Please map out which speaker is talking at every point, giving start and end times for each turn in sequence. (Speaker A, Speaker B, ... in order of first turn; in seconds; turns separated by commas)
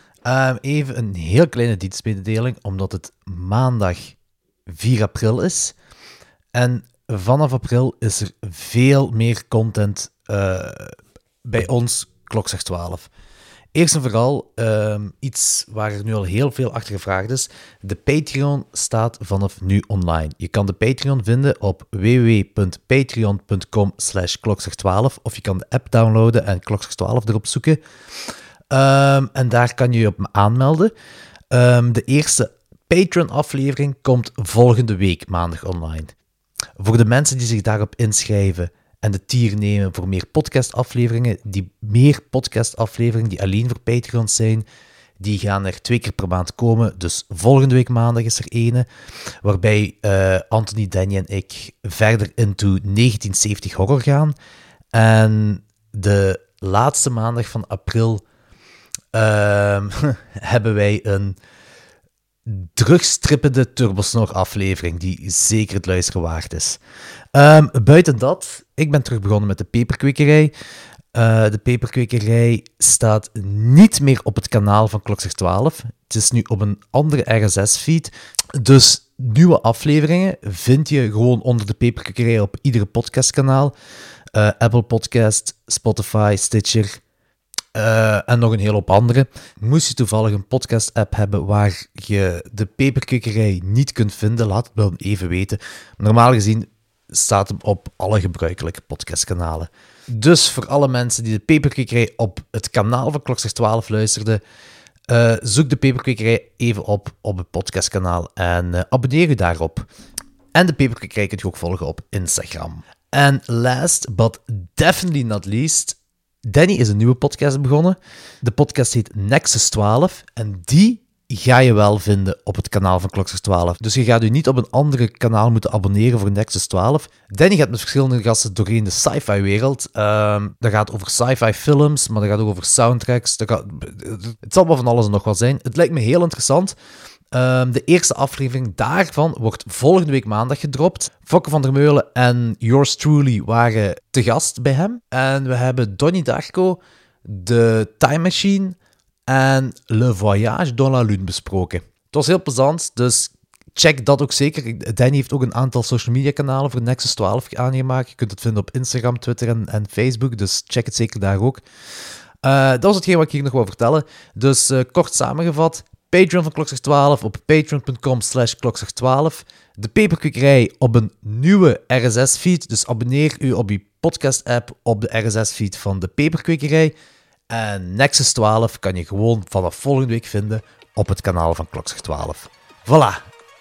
Speaker A: 0.2-4.1, Speaker A: 4.7-5.7, Speaker A: 6.5-13.1, Speaker A: 13.7-27.8, Speaker A: 28.7-30.9, Speaker A: 31.5-36.1, Speaker A: 36.8-44.6, Speaker A: 45.2-48.9, Speaker A: 49.4-54.3, Speaker A: 54.9-58.2, Speaker A: 59.1-61.4, Speaker A: 62.5-66.8, Speaker A: 67.3-70.5, Speaker A: 71.1-83.7, Speaker A: 84.3-87.0, Speaker A: 87.7-104.4, Speaker A: 105.1-109.9, Speaker A: 110.5-136.7, Speaker A: 137.3-148.8, Speaker A: 149.3-161.6, Speaker A: 162.4-176.9, Speaker A: 177.5-183.2